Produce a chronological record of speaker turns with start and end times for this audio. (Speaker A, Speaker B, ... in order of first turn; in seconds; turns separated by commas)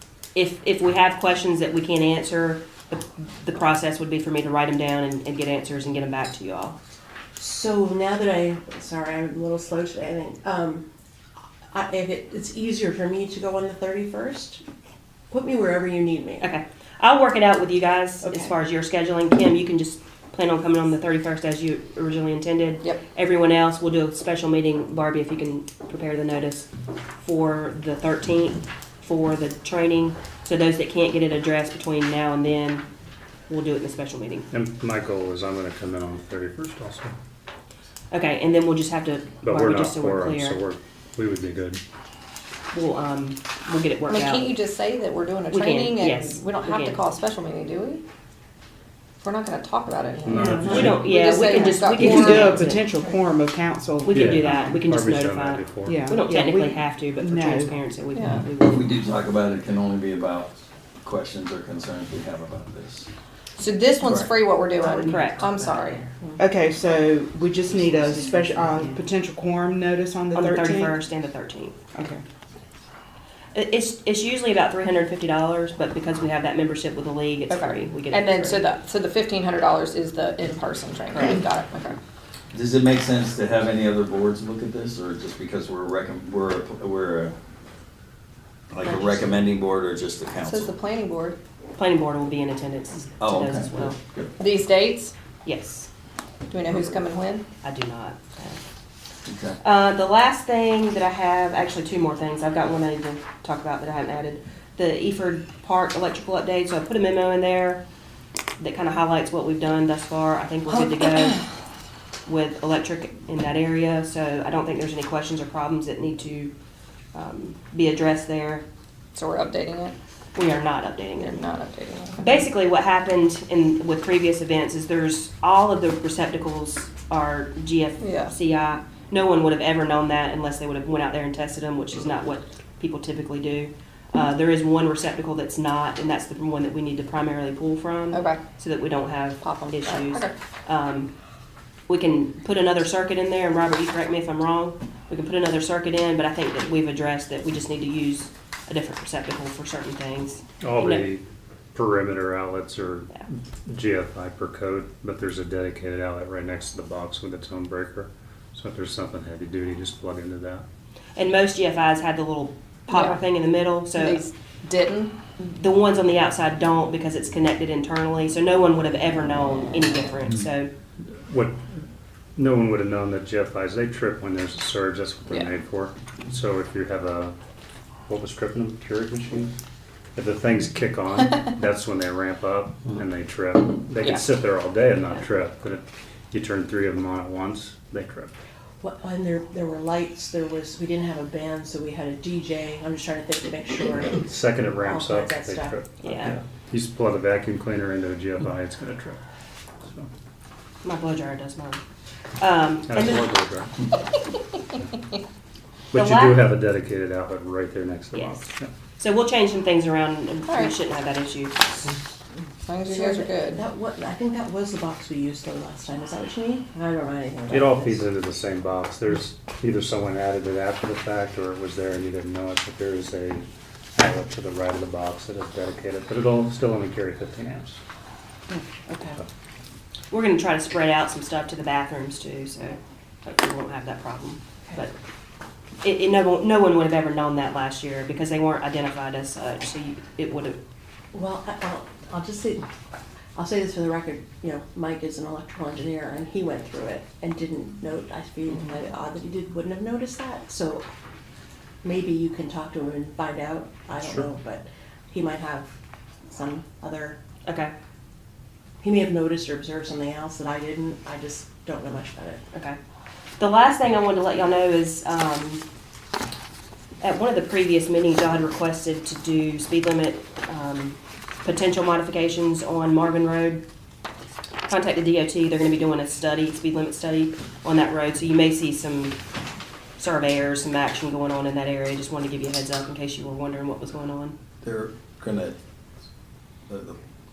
Speaker A: 0.3-6.8, Speaker B: 7.4-10.8, Speaker B: 11.7-14.6, Speaker B: 15.3-16.5, Speaker A: 16.4-26.7, Speaker B: 18.2-18.5, Speaker A: 27.2-32.9, Speaker A: 33.5-34.5, Speaker C: 34.5-37.1, Speaker A: 38.1-40.6, Speaker C: 39.4-41.8, Speaker A: 42.7-44.5, Speaker D: 44.0-48.0, Speaker A: 45.5-47.0, Speaker D: 49.2-53.0, Speaker C: 50.2-51.1, Speaker E: 50.3-51.0, Speaker A: 50.5-52.8, Speaker E: 52.0-54.4, Speaker A: 54.0-58.7, Speaker C: 54.1-56.1, Speaker E: 55.8-57.8, Speaker D: 58.1-58.4, Speaker F: 58.6-63.1, Speaker D: 63.6-66.0, Speaker F: 64.0-64.4, Speaker B: 64.8-66.5, Speaker A: 65.0-65.4, Speaker E: 66.4-71.0, Speaker B: 67.8-68.9, Speaker A: 70.3-71.8, Speaker E: 71.9-72.2, Speaker A: 73.5-78.7, Speaker D: 77.5-82.0, Speaker F: 82.5-87.3, Speaker F: 88.7-90.7, Speaker D: 90.4-91.4, Speaker A: 91.8-93.9, Speaker F: 93.2-94.3, Speaker D: 94.4-95.1, Speaker A: 95.4-95.9, Speaker D: 96.5-97.4, Speaker A: 97.6-98.6, Speaker F: 99.2-99.6, Speaker A: 99.6-107.8, Speaker A: 108.6-111.4, Speaker A: 112.2-116.5, Speaker A: 117.1-118.6, Speaker D: 119.1-119.9, Speaker A: 120.3-121.4, Speaker D: 121.2-122.2, Speaker A: 122.2-141.1, Speaker D: 128.0-128.3, Speaker D: 138.1-138.4, Speaker D: 139.4-140.3, Speaker A: 141.9-151.1, Speaker C: 150.6-160.7, Speaker A: 161.2-164.2, Speaker D: 162.9-163.2, Speaker D: 163.9-165.1, Speaker A: 165.4-170.7, Speaker C: 171.2-171.6, Speaker C: 172.3-177.3, Speaker C: 178.1-179.5, Speaker C: 180.1-188.3, Speaker D: 184.0-184.2, Speaker B: 188.8-195.8, Speaker C: 194.2-199.2, Speaker A: 196.0-196.3, Speaker C: 199.8-200.1, Speaker A: 200.8-201.8, Speaker A: 202.4-203.3, Speaker C: 202.9-203.8, Speaker C: 205.9-208.7, Speaker A: 205.9-206.5, Speaker A: 208.1-211.6, Speaker D: 210.5-210.7, Speaker D: 212.7-213.6, Speaker B: 212.8-218.0, Speaker C: 217.5-227.8, Speaker B: 228.5-229.2, Speaker A: 230.1-234.9, Speaker A: 235.8-240.6, Speaker B: 241.1-242.6, Speaker B: 243.3-250.8, Speaker B: 251.8-255.8, Speaker B: 256.3-257.2, Speaker A: 257.4-257.7, Speaker B: 258.8-262.4, Speaker A: 263.4-265.6, Speaker A: 267.0-273.6, Speaker A: 274.7-279.2, Speaker A: 280.0-284.3, Speaker F: 284.6-285.6, Speaker F: 286.7-287.0